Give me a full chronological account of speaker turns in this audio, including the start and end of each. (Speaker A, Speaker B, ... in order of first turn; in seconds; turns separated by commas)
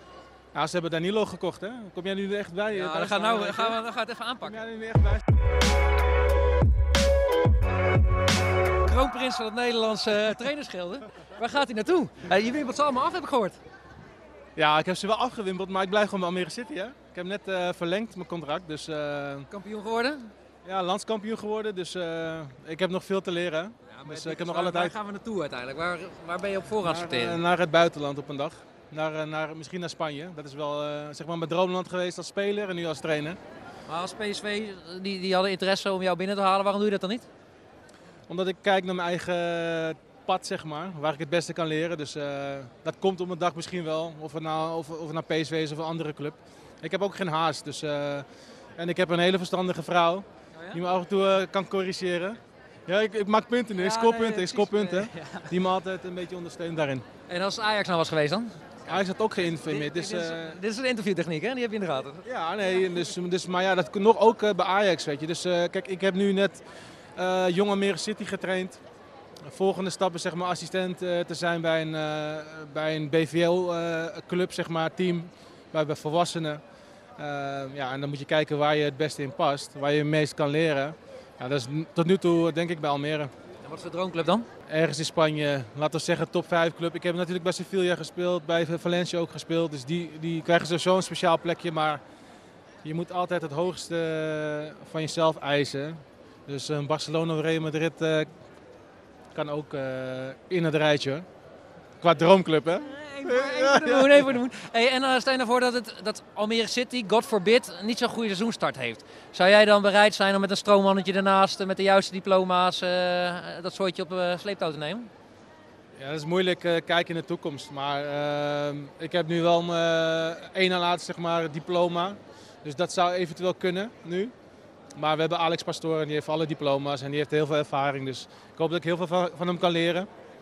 Speaker A: 0.5-3.8, Speaker B: 2.7-4.6, Speaker A: 4.4-5.2, Speaker B: 8.8-13.6, Speaker A: 14.6-19.5, Speaker B: 19.5-20.3, Speaker A: 20.6-25.0, Speaker B: 23.9-27.4, Speaker A: 26.8-33.4, Speaker B: 33.9-37.3, Speaker A: 38.3-57.1, Speaker B: 53.8-55.5, Speaker B: 57.3-62.2, Speaker A: 58.9-60.6, Speaker A: 62.2-66.6, Speaker A: 67.2-68.8, Speaker A: 69.5-76.6, Speaker A: 77.2-83.3, Speaker B: 83.7-84.5, Speaker A: 84.7-92.0, Speaker A: 92.8-98.3, Speaker A: 99.3-101.2, Speaker A: 102.0-104.4, Speaker B: 102.8-115.1, Speaker A: 116.0-124.3, Speaker A: 125.0-130.1